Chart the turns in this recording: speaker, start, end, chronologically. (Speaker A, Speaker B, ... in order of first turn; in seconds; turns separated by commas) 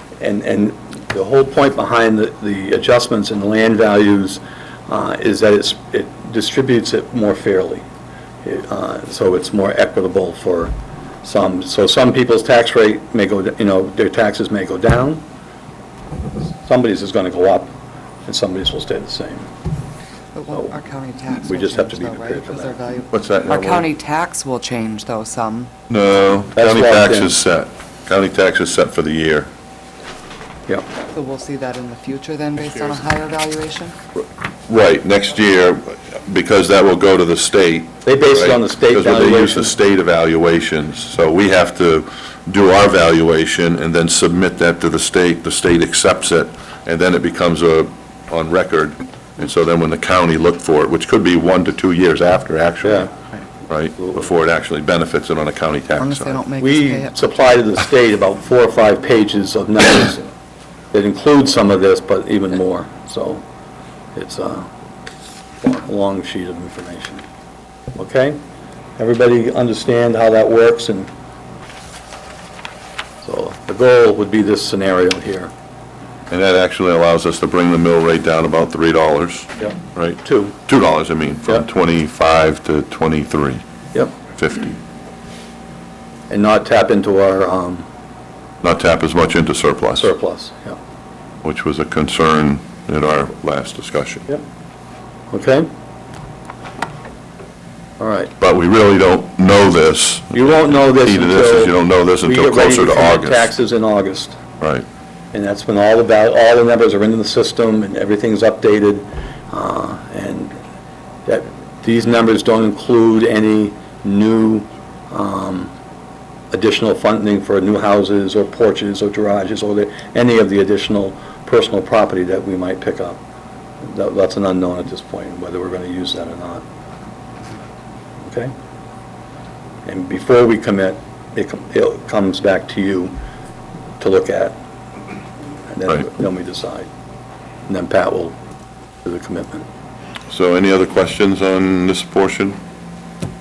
Speaker A: 0.2-7.8, Speaker A: 8.4-15.2, Speaker A: 16.6-17.7, Speaker A: 18.2-19.5, Speaker B: 20.3-25.7, Speaker A: 21.4-22.8, Speaker C: 23.1-23.9, Speaker C: 25.9-29.5, Speaker A: 26.5-27.3, Speaker B: 31.1-34.0, Speaker C: 34.2-53.1, Speaker A: 38.0-39.7, Speaker A: 52.8-53.1, Speaker C: 53.7-56.4, Speaker B: 56.0-57.5, Speaker A: 56.6-60.2, Speaker A: 60.9-63.4, Speaker A: 64.1-64.7, Speaker A: 65.6-67.2, Speaker A: 68.0-68.4, Speaker A: 69.0-71.1, Speaker A: 73.2-75.5, Speaker C: 76.3-83.6, Speaker A: 79.6-80.6, Speaker C: 84.3-84.8, Speaker A: 86.3-87.8, Speaker C: 88.6-90.1, Speaker A: 90.0-90.8, Speaker C: 91.4-94.3, Speaker A: 95.3-95.7, Speaker A: 98.0-98.3, Speaker C: 98.4-103.5, Speaker A: 100.3-104.4, Speaker A: 105.3-110.5, Speaker A: 111.2-115.7, Speaker A: 116.5-123.2, Speaker A: 123.8-126.6, Speaker A: 128.2-128.5, Speaker A: 129.8-133.1, Speaker A: 134.0-134.5, Speaker A: 135.7-136.9, Speaker A: 137.7-138.3, Speaker A: 139.0-139.7, Speaker C: 140.3-142.6